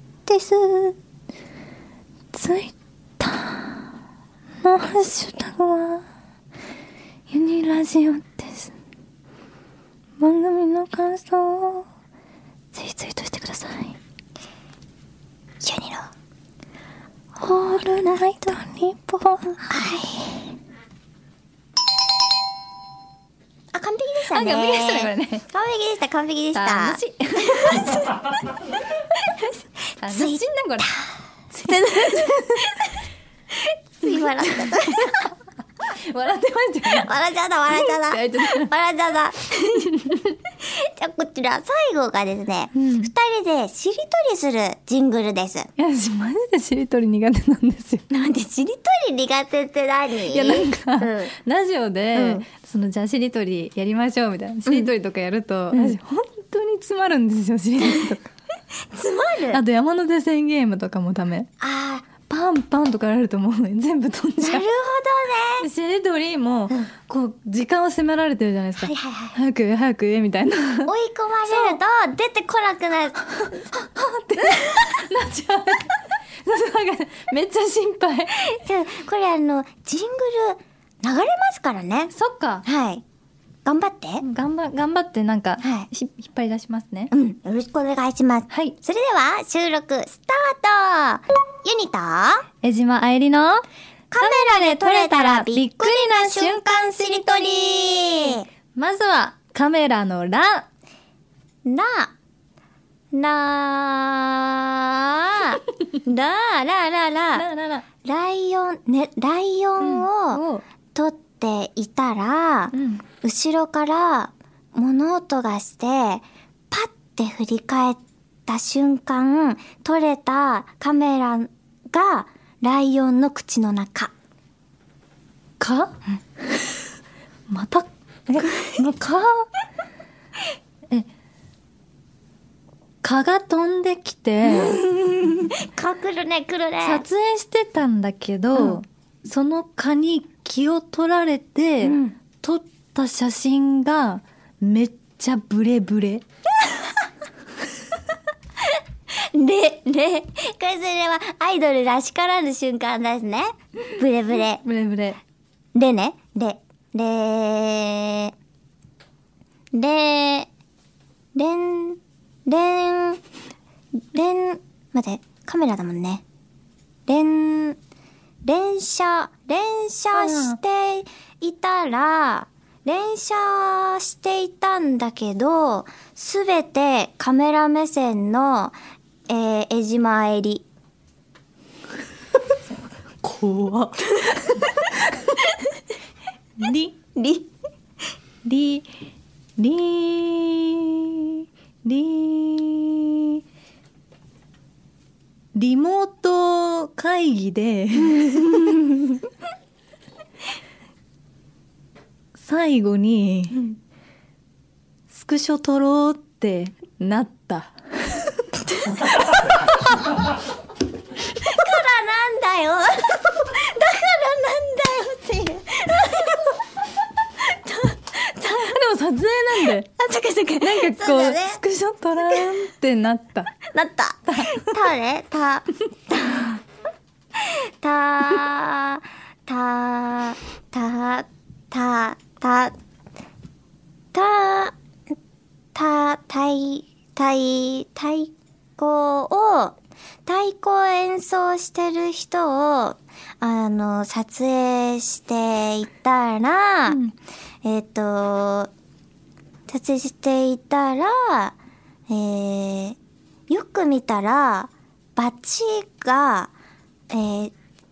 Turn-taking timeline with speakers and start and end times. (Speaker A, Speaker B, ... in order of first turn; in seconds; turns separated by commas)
Speaker A: 0.3-0.9, Speaker A: 2.3-3.9, Speaker A: 4.6-6.0, Speaker A: 7.3-8.7, Speaker A: 10.2-11.9, Speaker A: 12.7-14.0, Speaker B: 15.6-16.1, Speaker A: 17.4-19.9, Speaker B: 19.6-20.4, Speaker B: 23.7-28.4, Speaker A: 24.3-25.5, Speaker A: 26.5-28.1, Speaker A: 30.0-30.9, Speaker B: 30.1-32.9, Speaker A: 31.5-32.8, Speaker B: 34.0-35.3, Speaker A: 34.0-35.3, Speaker A: 35.8-37.1, Speaker B: 36.9-45.7, Speaker A: 37.7-38.7, Speaker A: 39.9-40.3, Speaker A: 42.7-43.1, Speaker A: 45.8-48.1, Speaker B: 48.1-51.4, Speaker A: 50.3-58.3, Speaker B: 52.1-52.4, Speaker B: 58.9-59.6, Speaker A: 59.5-61.5, Speaker B: 61.6-62.1, Speaker A: 62.3-64.7, Speaker B: 64.4-65.7, Speaker A: 65.6-70.9, Speaker B: 68.8-69.4, Speaker B: 70.9-73.2, Speaker A: 71.5-71.8, Speaker A: 73.4-78.5, Speaker B: 78.4-82.1, Speaker A: 82.1-82.6, Speaker B: 82.7-83.0, Speaker B: 83.7-84.2, Speaker A: 84.2-87.1, Speaker B: 85.6-85.9, Speaker B: 87.1-92.5, Speaker A: 88.5-88.8, Speaker A: 92.6-93.7, Speaker B: 94.1-98.5, Speaker A: 94.2-100.7, Speaker B: 101.7-102.1, Speaker B: 103.1-107.5, Speaker A: 107.3-107.8, Speaker B: 108.0-110.4, Speaker A: 109.8-110.6, Speaker B: 111.0-124.1, Speaker A: 112.7-113.0, Speaker A: 125.6-126.0, Speaker A: 127.5-129.5, Speaker A: 133.0-134.8, Speaker B: 134.5-137.0, Speaker A: 136.8-146.2, Speaker B: 141.8-142.2, Speaker B: 149.1-154.6, Speaker A: 154.6-155.2, Speaker B: 155.8-158.3, Speaker B: 159.7-160.5, Speaker B: 161.3-163.2, Speaker B: 164.1-166.2, Speaker B: 167.1-167.8, Speaker B: 168.4-178.8, Speaker A: 170.1-170.6, Speaker B: 179.3-180.7, Speaker A: 183.2-185.3, Speaker A: 186.6-186.9, Speaker B: 187.2-187.5, Speaker A: 188.4-188.9, Speaker A: 189.6-193.4, Speaker A: 195.5-198.9, Speaker A: 202.4-203.7, Speaker A: 205.1-209.3, Speaker B: 211.3-216.6, Speaker B: 217.4-218.6, Speaker A: 218.4-219.9, Speaker B: 220.0-221.6, Speaker A: 220.6-223.6, Speaker B: 223.7-226.5, Speaker A: 224.3-224.7, Speaker B: 227.4-232.8, Speaker B: 234.1-234.8, Speaker B: 235.8-247.0, Speaker A: 246.9-247.1, Speaker B: 247.6-248.7, Speaker B: 249.7-251.6, Speaker B: 252.1-253.0, Speaker B: 253.5-256.5, Speaker B: 257.1-257.5